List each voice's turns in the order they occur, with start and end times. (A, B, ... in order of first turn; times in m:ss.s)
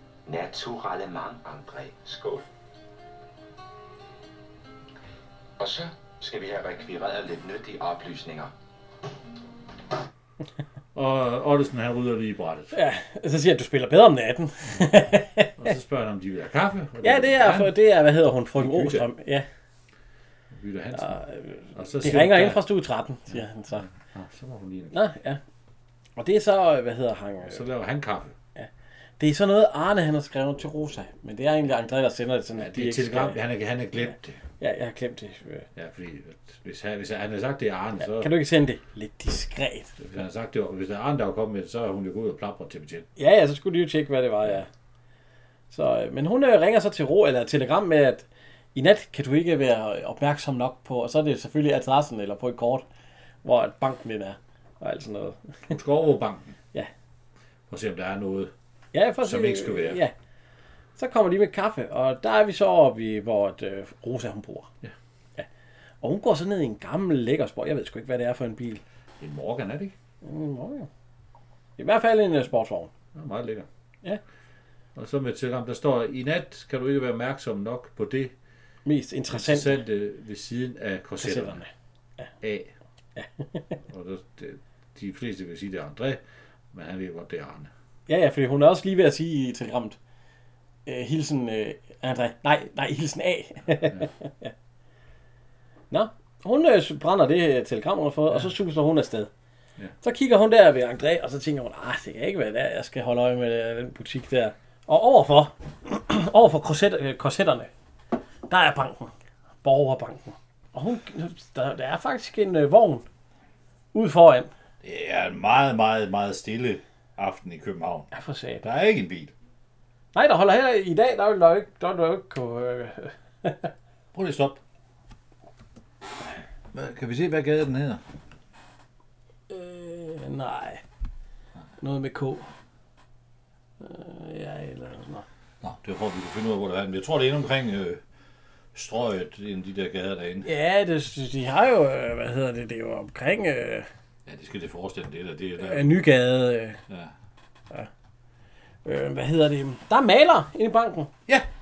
0:00.3-0:02.5 A
0:05.6-0:08.5 A
0:11.0-0:12.7 B
0:12.7-0:15.5 C
0:15.6-0:17.8 B
0:17.0-0:19.5 C
0:18.5-0:19.1 B
0:20.5-0:21.2 B
0:21.0-0:23.8 C
0:21.8-0:22.6 B
0:23.3-0:25.0 B
0:24.9-0:25.4 C
0:26.2-0:27.6 C
0:27.4-0:28.4 B
0:28.6-0:33.4 C
0:32.6-0:34.4 B
0:34.6-0:35.7 C
0:35.8-0:38.3 B
0:38.0-0:40.0 C
0:40.0-0:43.1 B
0:43.2-0:44.7 C
0:45.7-0:52.8 C
0:53.4-0:55.4 C
0:55.7-0:56.6 B
0:57.7-0:58.5 B
0:58.9-1:00.1 C
0:59.2-1:00.0 B
1:01.0-1:04.7 C
1:06.0-1:08.8 C
1:09.2-1:09.9 B
1:10.2-1:10.9 C
1:11.8-1:12.9 C
1:13.1-1:13.7 B
1:15.0-1:18.3 B
1:18.8-1:19.8 C
1:19.3-1:21.6 B
1:21.2-1:22.3 C
1:22.4-1:22.7 B
1:23.2-1:23.8 C
1:23.9-1:27.7 B
1:28.1-1:30.0 C
1:30.9-1:34.5 C
1:35.9-1:39.3 C
1:40.0-1:47.7 C
1:48.5-1:49.1 C
1:49.6-1:53.0 C
1:53.9-1:54.5 C
1:54.8-1:58.1 B
1:58.1-1:58.6 C
1:58.6-1:59.3 B
2:00.1-2:03.7 C
2:04.1-2:04.6 B
2:06.7-2:08.0 B
2:09.5-2:10.8 C
2:11.8-2:12.5 C
2:13.8-2:15.2 C
2:15.6-2:18.0 B
2:18.7-2:20.5 B
2:20.4-2:23.9 C
2:24.3-2:26.0 B
2:25.6-2:26.8 C
2:28.8-2:31.1 C